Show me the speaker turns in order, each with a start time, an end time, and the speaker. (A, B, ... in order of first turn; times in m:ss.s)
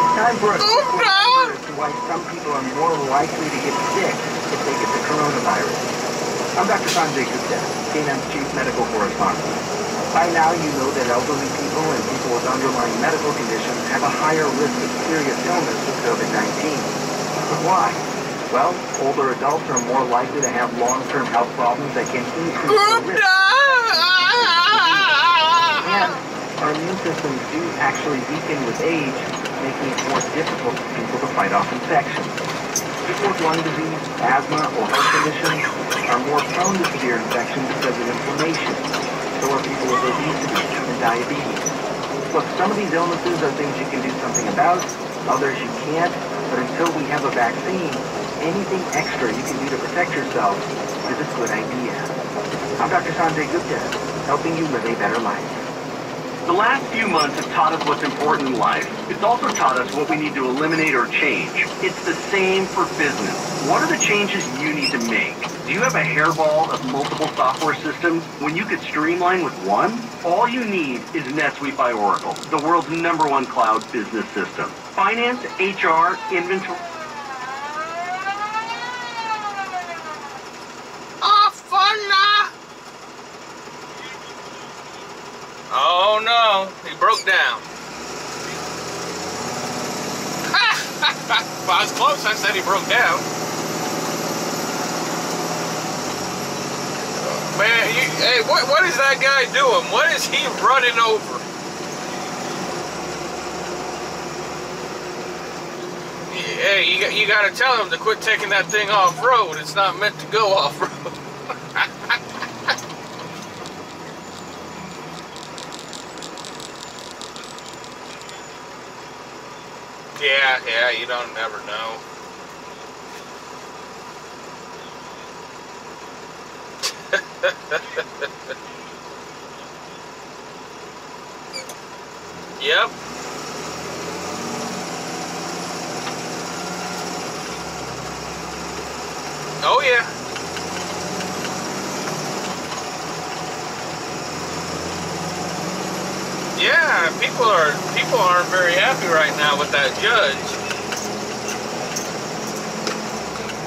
0:00.1-0:05.9 A
0:00.6-0:01.6 B
0:06.6-0:09.6 A
0:10.1-0:23.2 A
0:22.6-0:26.2 B
0:24.3-0:25.1 A
0:25.7-0:32.4 A
0:33.0-0:41.8 A
0:42.3-0:52.1 A
0:52.8-0:55.6 A
0:56.4-1:16.8 C
1:21.2-1:22.5 B
1:25.7-1:27.7 B
1:30.5-1:33.2 B
1:37.1-1:41.4 B
1:46.3-1:51.1 B
1:51.7-1:52.1 B
2:00.2-2:02.0 B
2:07.1-2:08.0 B
2:12.6-2:12.9 B
2:19.6-2:20.1 B
2:26.5-2:30.6 B